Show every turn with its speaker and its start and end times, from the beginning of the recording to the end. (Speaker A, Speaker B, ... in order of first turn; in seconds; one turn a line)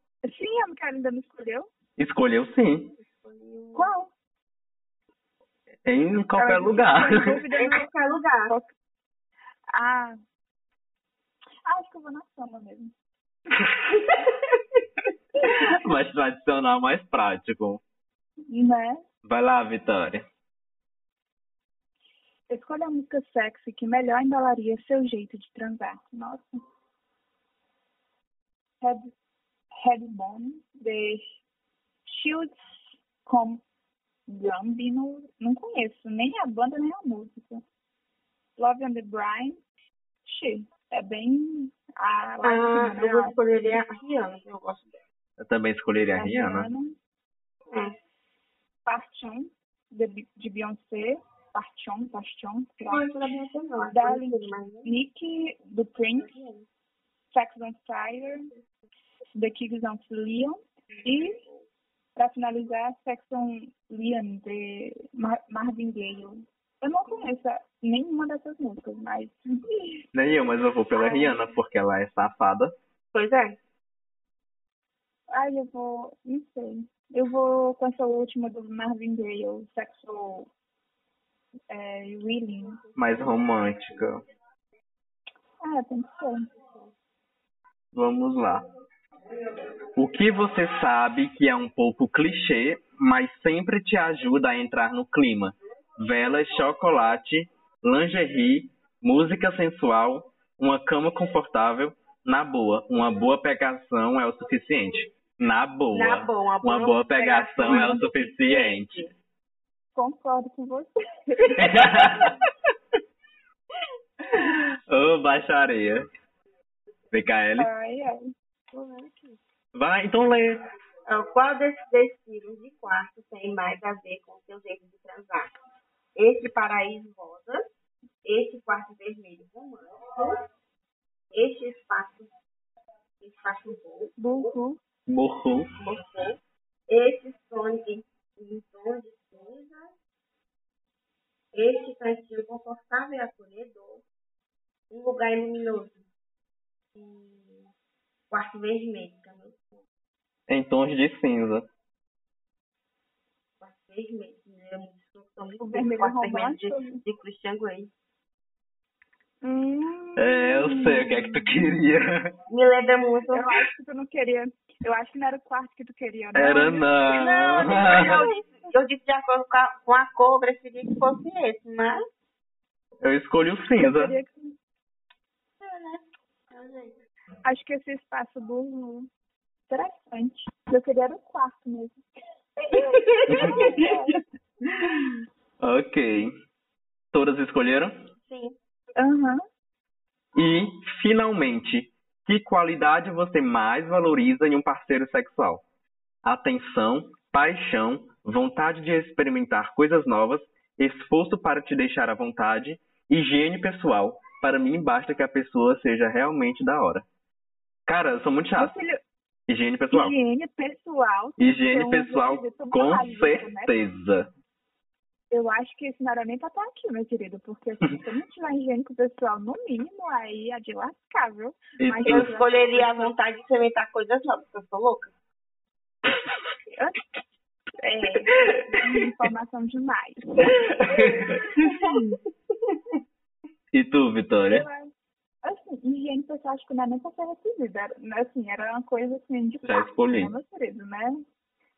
Speaker A: 0.3-1.7
Speaker B: 2.0-3.0
Speaker C: 3.0-3.9
Speaker A: 3.7-4.1
Speaker B: 5.8-7.4
Speaker A: 6.4-7.9
Speaker C: 7.6-8.5
Speaker A: 8.5-8.7
Speaker A: 9.7-10.2
Speaker A: 11.7-12.9
Speaker A: 15.4-15.7
Speaker B: 15.4-17.8
Speaker A: 18.5-19.0
Speaker B: 19.2-20.2
Speaker A: 22.5-26.6
Speaker A: 28.8-29.1
Speaker A: 29.7-31.4
Speaker A: 32.1-33.6
Speaker A: 34.3-37.6
Speaker A: 38.6-39.6
Speaker A: 40.2-43.8
Speaker C: 42.4-45.0
Speaker B: 45.4-46.7
Speaker A: 46.2-47.0
Speaker A: 48.9-53.1
Speaker C: 52.9-54.9
Speaker A: 53.9-56.3
Speaker C: 56.2-56.6
Speaker A: 57.3-58.5
Speaker A: 59.4-61.4
Speaker C: 60.9-61.6
Speaker A: 62.2-70.1
Speaker B: 70.1-72.8
Speaker A: 71.0-71.3
Speaker C: 73.1-73.6
Speaker A: 75.3-80.5
Speaker A: 81.7-82.8
Speaker B: 83.0-84.2
Speaker A: 85.6-86.5
Speaker B: 87.9-88.7
Speaker B: 90.0-109.1
Speaker C: 105.9-109.1
Speaker A: 107.7-108.0
Speaker A: 110.0-112.1
Speaker B: 111.6-112.4
Speaker B: 114.3-116.1
Speaker B: 117.1-117.7
Speaker A: 117.6-118.3
Speaker C: 118.7-119.4
Speaker B: 119.8-120.6
Speaker C: 121.1-125.5
Speaker C: 126.2-127.7
Speaker C: 128.2-130.4
Speaker C: 131.3-132.3
Speaker C: 133.2-134.5
Speaker A: 134.2-134.8
Speaker B: 135.1-135.7
Speaker C: 135.8-139.9
Speaker C: 141.5-144.0
Speaker C: 144.9-146.1
Speaker C: 147.0-147.7
Speaker C: 148.3-149.7
Speaker B: 150.5-151.7
Speaker C: 153.6-157.9
Speaker A: 155.6-157.0
Speaker A: 159.4-161.6
Speaker B: 160.2-162.3
Speaker C: 162.5-163.6
Speaker A: 163.3-166.9
Speaker B: 166.3-168.2
Speaker C: 167.1-172.0
Speaker B: 173.0-174.1
Speaker A: 173.8-174.6
Speaker C: 175.6-176.9
Speaker A: 177.4-179.1
Speaker A: 179.7-182.0
Speaker A: 182.6-184.2
Speaker C: 182.9-183.6
Speaker B: 183.3-183.9
Speaker B: 185.6-186.3
Speaker B: 187.1-187.9
Speaker C: 188.3-188.6
Speaker A: 189.0-189.4
Speaker B: 190.3-195.6
Speaker B: 196.2-207.1
Speaker B: 207.9-208.7
Speaker A: 208.6-209.0
Speaker B: 209.5-210.2
Speaker A: 209.9-213.7
Speaker B: 211.4-214.3
Speaker A: 215.3-223.1
Speaker B: 221.8-222.3
Speaker C: 222.1-225.1
Speaker A: 226.8-227.0
Speaker A: 227.8-231.9
Speaker B: 230.4-231.8
Speaker B: 233.7-234.7
Speaker A: 234.5-234.9
Speaker A: 235.4-241.2
Speaker B: 239.6-240.3